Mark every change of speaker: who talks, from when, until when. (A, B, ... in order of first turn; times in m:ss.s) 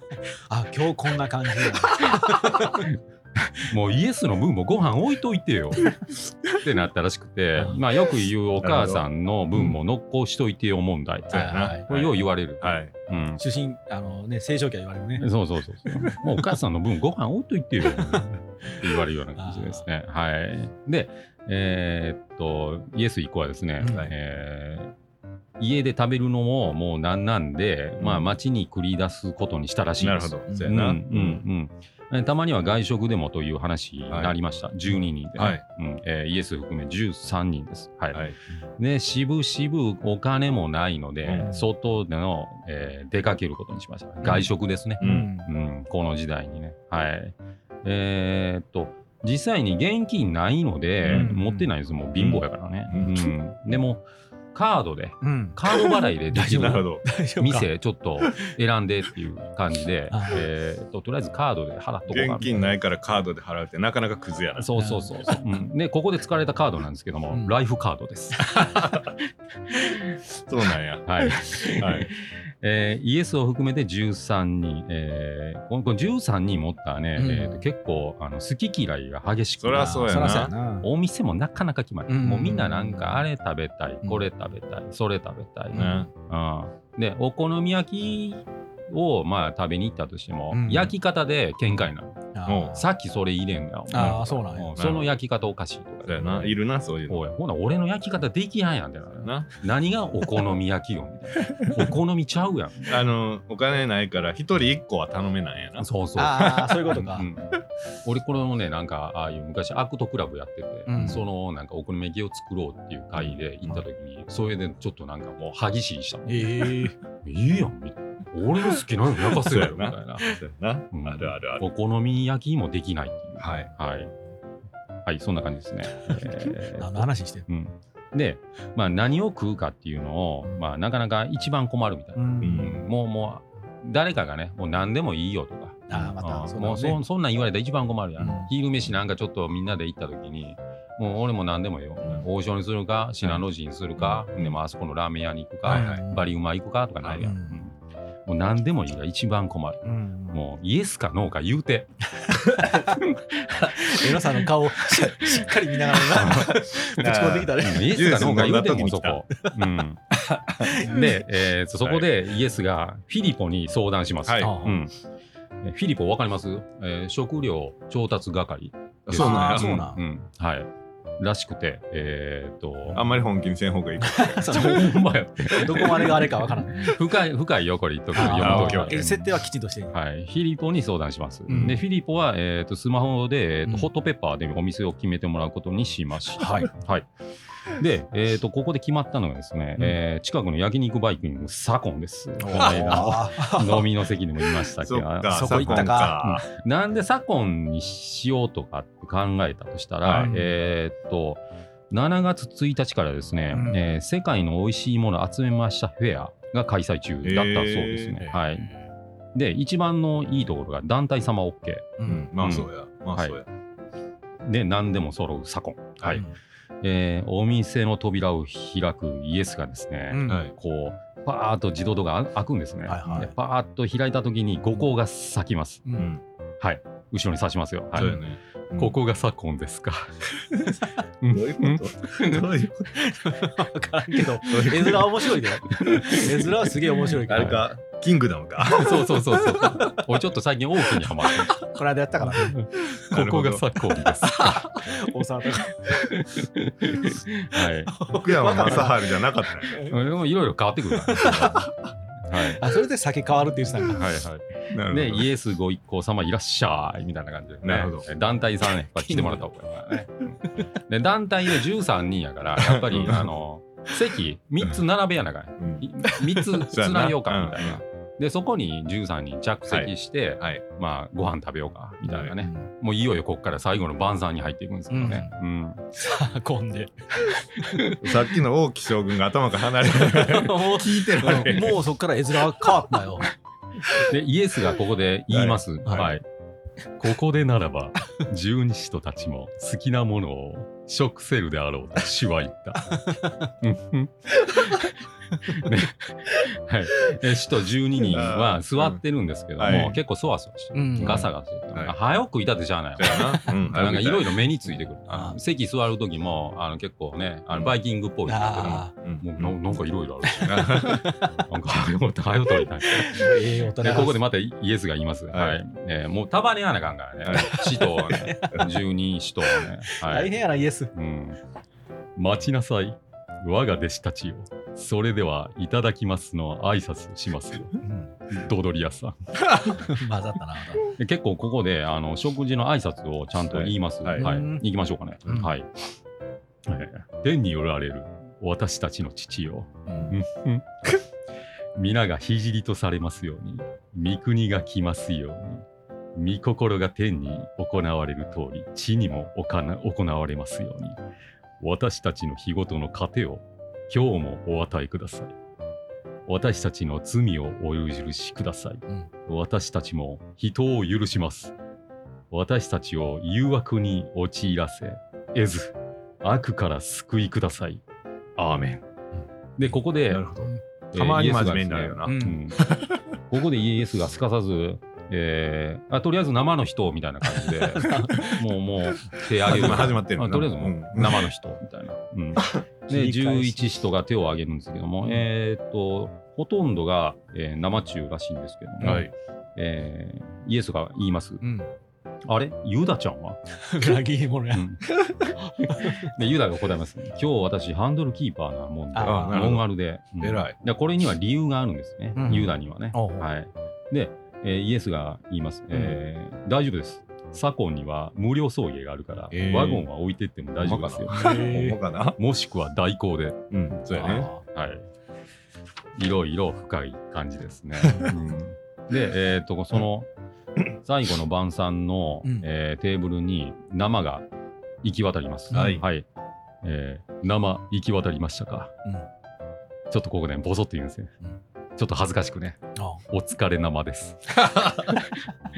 0:00.5-0:02.8 A
0:02.6-0:05.9 B
0:06.5-0:13.4 B
0:08.6-0:09.0 C
0:11.3-0:12.9 C
0:11.3-0:11.9 A
0:13.4-0:15.2 A
0:15.2-0:24.9 B
0:17.9-0:18.8 A
0:19.4-0:19.8 A
0:23.8-0:24.1 A
0:23.9-0:24.1 C
0:25.6-0:38.2 B
0:28.0-0:28.3 C
0:30.0-0:31.4 C
0:30.5-0:30.7 A
0:34.1-0:34.4 C
0:35.3-0:35.6 C
0:38.8-0:56.9 B
0:41.2-0:41.5 C
0:45.0-0:45.3 C
0:45.0-0:45.5 A
0:51.0-0:51.3 C
0:51.1-0:51.7 A
0:52.2-0:53.3 C
0:55.2-0:57.7 A
0:56.6-0:57.0 C
0:57.4-1:02.5 B
1:00.1-1:00.4 A
1:02.1-1:04.7 C
1:02.4-1:02.7 A
1:04.6-1:08.7 B
1:04.8-1:05.3 A
1:08.6-1:09.1 C
1:10.5-1:12.1 C
1:11.0-1:32.2 B
1:17.2-1:17.7 A
1:19.6-1:20.5 C
1:19.8-1:20.9 A
1:22.1-1:23.2 A
1:25.7-1:26.1 A
1:25.7-1:26.1 C
1:30.5-1:30.9 A
1:32.3-1:32.8 A
1:32.4-1:32.8 C
1:32.8-1:43.1 B
1:33.9-1:34.8 A
1:34.8-1:35.1 C
1:36.0-1:37.2 C
1:39.2-1:39.5 C
1:41.5-1:41.9 C
1:42.9-1:45.8 C
1:45.8-2:00.3 B
1:46.2-1:47.3 A
1:50.9-1:51.2 A
1:53.2-1:53.8 C
1:56.3-1:57.0 A
1:59.3-2:01.6 C
2:00.9-2:04.1 B
2:03.4-2:03.7 C
2:05.0-2:32.0 B
2:06.0-2:07.5 A
2:12.2-2:12.8 A
2:12.4-2:12.8 C
2:15.9-2:17.0 A
2:18.2-2:18.5 A
2:24.0-2:24.3 C
2:25.6-2:26.0 C
2:25.6-2:26.3 A
2:27.0-2:27.3 C
2:27.2-2:27.6 A
2:29.8-2:30.4 A
2:32.2-2:37.9 A
2:33.0-2:33.6 B
2:35.0-2:35.4 B
2:36.1-2:36.7 B
2:36.9-2:39.2 C
2:37.6-2:40.0 B
2:40.2-2:41.1 A
2:40.7-2:45.0 B
2:41.8-2:42.1 C
2:44.2-2:44.6 C
2:44.4-2:44.8 A
2:45.6-2:53.0 B
2:49.0-2:49.9 C
2:49.1-2:50.0 A
2:52.9-2:54.6 C
2:54.0-2:55.0 A
2:54.5-2:59.3 B
2:55.5-2:57.0 A
2:58.1-2:59.9 A
2:58.2-2:59.1 C
2:59.9-3:07.1 B
3:01.5-3:01.8 A
3:06.4-3:06.7 A
3:07.7-3:28.7 B
3:12.4-3:13.8 A
3:12.6-3:13.4 C
3:14.8-3:16.4 C
3:15.3-3:16.2 A
3:20.0-3:20.3 C
3:20.1-3:20.5 A
3:23.5-3:23.8 A
3:27.2-3:28.3 C
3:28.3-3:28.7 A
3:29.3-3:33.4 B
3:32.0-3:32.3 A
3:32.0-3:33.4 C
3:34.4-3:36.2 B
3:36.8-3:45.9 B
3:40.1-3:40.4 A
3:40.3-3:40.5 C
3:42.9-3:43.3 A
3:46.6-3:48.2 B
3:47.9-3:49.0 C
3:48.0-3:48.2 A
3:48.7-3:50.3 B
3:51.2-3:52.4 B
3:51.3-3:52.9 C
3:52.9-3:57.7 A
3:54.4-3:55.1 B
3:54.5-3:55.0 C
3:55.7-3:56.4 B
3:57.1-3:57.6 B
3:57.3-3:59.1 C
3:58.7-4:01.7 B
3:59.3-4:00.0 A
4:01.0-4:02.6 A
4:02.2-4:04.8 B
4:03.0-4:03.7 C
4:04.4-4:04.6 C
4:04.8-4:06.2 A
4:05.9-4:08.9 B
4:07.9-4:08.9 A
4:08.1-4:09.8 C
4:09.7-4:09.9 A
4:09.7-4:12.6 B
4:10.9-4:11.7 A
4:12.6-4:14.0 A
4:13.9-4:35.8 B
4:14.7-4:15.3 C
4:17.6-4:18.1 C
4:19.0-4:19.4 A
4:22.6-4:23.3 C
4:25.6-4:25.9 C
4:26.6-4:27.8 C
4:29.7-4:30.6 C
4:32.0-4:32.3 C
4:32.4-4:32.6 A
4:34.9-4:35.3 A
4:35.9-4:38.0 A
4:38.0-4:41.8 C
4:40.0-4:43.3 A
4:43.9-4:46.2 B
4:45.3-4:46.1 C
4:47.0-5:20.3 B
4:52.9-4:53.4 A
4:58.1-4:59.0 C
4:59.6-5:00.0 C
4:59.7-4:59.9 A
5:00.7-5:01.3 A
5:01.0-5:01.9 C
5:03.0-5:04.4 C
5:03.4-5:03.7 A
5:05.1-5:05.4 A
5:08.3-5:08.9 A
5:08.6-5:09.6 C
5:10.3-5:11.3 A
5:10.4-5:11.0 C
5:12.8-5:14.2 A
5:15.3-5:15.6 C
5:17.2-5:17.6 C
5:17.3-5:18.6 A
5:18.5-5:18.8 C
5:19.6-5:20.9 A
5:20.9-5:21.4 B
5:22.2-5:29.2 B
5:27.8-5:28.1 A
5:29.5-5:29.7 C
5:29.7-5:30.9 A
5:30.9-5:35.9 B
5:33.5-5:34.3 C
5:34.2-5:34.6 A
5:36.6-5:41.0 B
5:41.8-5:51.0 B
5:51.6-5:55.3 B
5:56.3-6:01.5 B
6:02.3-6:07.8 B
6:08.4-6:08.8 B
6:09.6-6:10.3 B
6:10.1-6:13.0 C
6:10.9-6:12.7 B
6:12.1-6:12.4 A
6:13.3-6:31.4 B
6:17.4-6:18.4 A
6:19.4-6:21.2 C
6:22.9-6:23.6 A
6:28.8-6:29.1 C
6:31.4-6:31.7 A
6:32.2-6:34.0 B
6:33.6-6:36.1 A
6:34.5-6:34.9 B
6:35.8-6:51.6 B
6:38.9-6:39.5 A
6:39.0-6:39.6 C
6:40.2-6:40.6 C
6:42.2-6:43.3 A
6:49.3-6:49.9 C
6:50.6-6:52.2 C
6:51.1-6:51.8 A
6:52.2-6:53.5 B
6:53.5-6:54.3 C
6:53.9-6:54.4 A
6:54.0-6:54.8 B
6:56.0-7:00.1 B
7:00.8-7:04.2 B
7:04.8-7:06.0 B
7:05.5-7:05.8 A
7:05.5-7:05.8 C
7:06.6-7:08.7 B
7:09.9-7:11.1 B
7:11.8-7:15.3 B
7:12.8-7:13.0 A